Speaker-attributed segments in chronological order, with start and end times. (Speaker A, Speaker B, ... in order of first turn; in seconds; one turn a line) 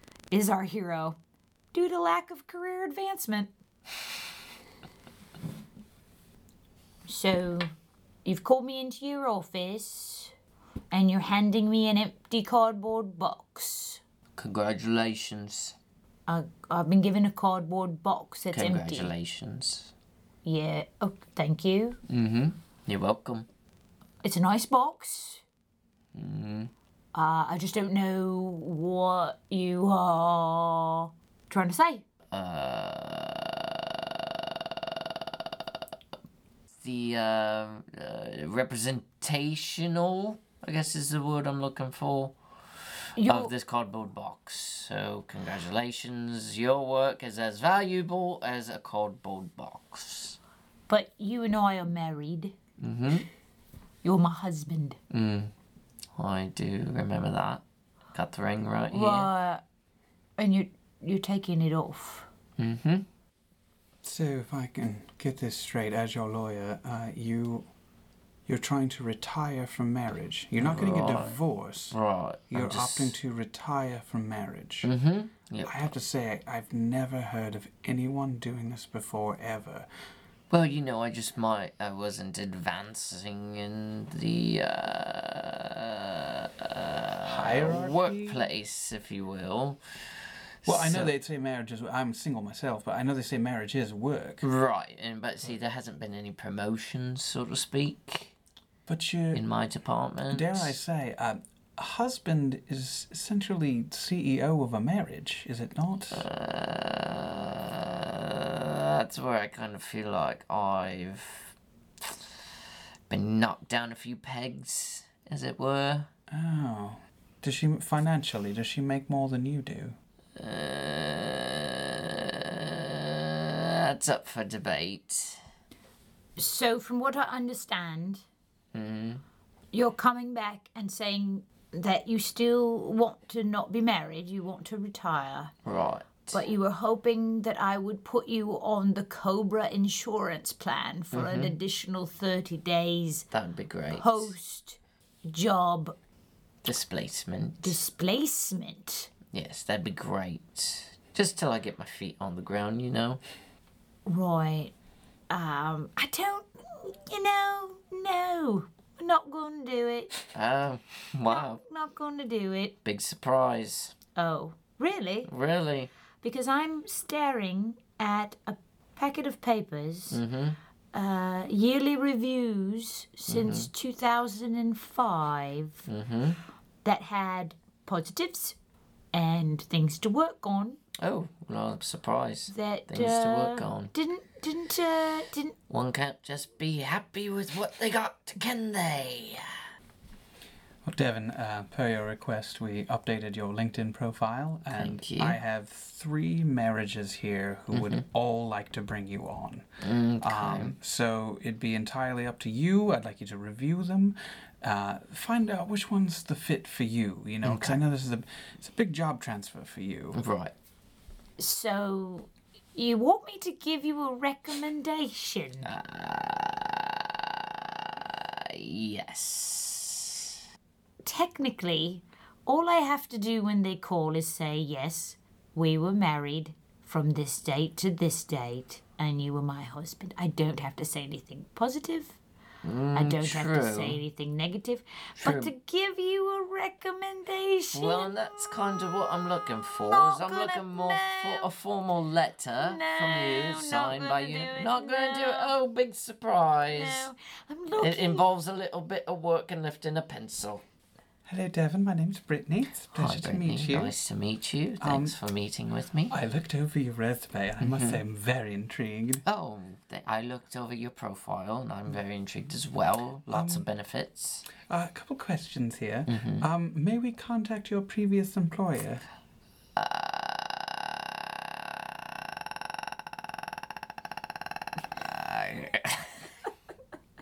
Speaker A: 0.3-1.2
Speaker A: 1.7-3.5
Speaker A: 7.1-7.7
Speaker A: 8.2-10.3
Speaker A: 10.9-14.0
Speaker B: 14.4-15.8
Speaker A: 16.3-19.1
Speaker B: 18.5-19.9
Speaker A: 20.4-22.0
Speaker B: 22.1-23.5
Speaker A: 24.2-25.4
Speaker B: 26.1-26.7
Speaker A: 27.1-32.0
Speaker B: 32.3-35.1
Speaker B: 36.8-42.4
Speaker A: 43.2-43.5
Speaker B: 43.2-50.4
Speaker A: 50.9-52.5
Speaker B: 52.8-53.3
Speaker A: 54.0-55.0
Speaker B: 55.1-55.5
Speaker B: 56.1-59.3
Speaker A: 58.9-59.6
Speaker A: 60.4-62.3
Speaker B: 62.6-63.1
Speaker C: 64.0-67.7
Speaker C: 68.5-71.9
Speaker B: 70.6-71.4
Speaker B: 71.9-73.2
Speaker C: 72.5-74.9
Speaker B: 74.8-75.9
Speaker C: 75.6-79.9
Speaker B: 80.5-89.8
Speaker C: 87.2-88.5
Speaker B: 90.6-91.1
Speaker C: 90.7-94.5
Speaker B: 94.4-98.3
Speaker C: 98.9-99.4
Speaker B: 99.3-100.8
Speaker C: 100.3-106.2
Speaker B: 106.1-112.3
Speaker B: 113.1-116.1
Speaker C: 116.3-120.0
Speaker B: 120.4-125.4
Speaker A: 126.4-128.2
Speaker B: 128.7-129.2
Speaker A: 129.7-135.5
Speaker B: 135.7-136.4
Speaker A: 136.3-143.3
Speaker B: 141.1-141.5
Speaker B: 143.3-144.3
Speaker A: 143.9-145.9
Speaker B: 146.6-147.8
Speaker A: 147.6-149.1
Speaker B: 149.3-153.2
Speaker A: 154.1-154.7
Speaker A: 155.3-160.2
Speaker B: 160.3-161.6
Speaker A: 161.3-162.8
Speaker B: 162.8-163.9
Speaker A: 164.2-165.3
Speaker B: 165.3-165.9
Speaker A: 166.2-170.2
Speaker B: 170.1-170.6
Speaker A: 170.9-175.9
Speaker B: 173.3-173.7
Speaker B: 175.9-176.4
Speaker A: 176.8-178.6
Speaker A: 179.1-180.8
Speaker B: 181.0-183.9
Speaker A: 182.5-185.6
Speaker B: 185.7-189.5
Speaker C: 190.8-199.7
Speaker B: 194.7-195.4
Speaker B: 197.7-198.0
Speaker B: 199.8-200.8
Speaker C: 200.2-210.2
Speaker B: 207.4-207.8
Speaker B: 210.1-210.5
Speaker A: 211.4-215.7
Speaker B: 215.6-220.4
Speaker A: 221.0-232.2
Speaker B: 232.6-234.0
Speaker A: 232.9-238.8
Speaker B: 235.2-235.5
Speaker B: 237.7-247.1
Speaker A: 239.9-241.5
Speaker A: 242.6-245.5
Speaker A: 246.7-248.3
Speaker B: 247.8-250.6
Speaker C: 251.3-253.9
Speaker B: 252.9-256.1
Speaker C: 254.8-255.2
Speaker C: 256.1-259.2
Speaker B: 257.6-258.0
Speaker B: 259.3-264.5
Speaker C: 263.3-263.6
Speaker C: 264.7-269.0
Speaker B: 266.1-266.5
Speaker B: 269.8-271.5
Speaker B: 275.0-276.2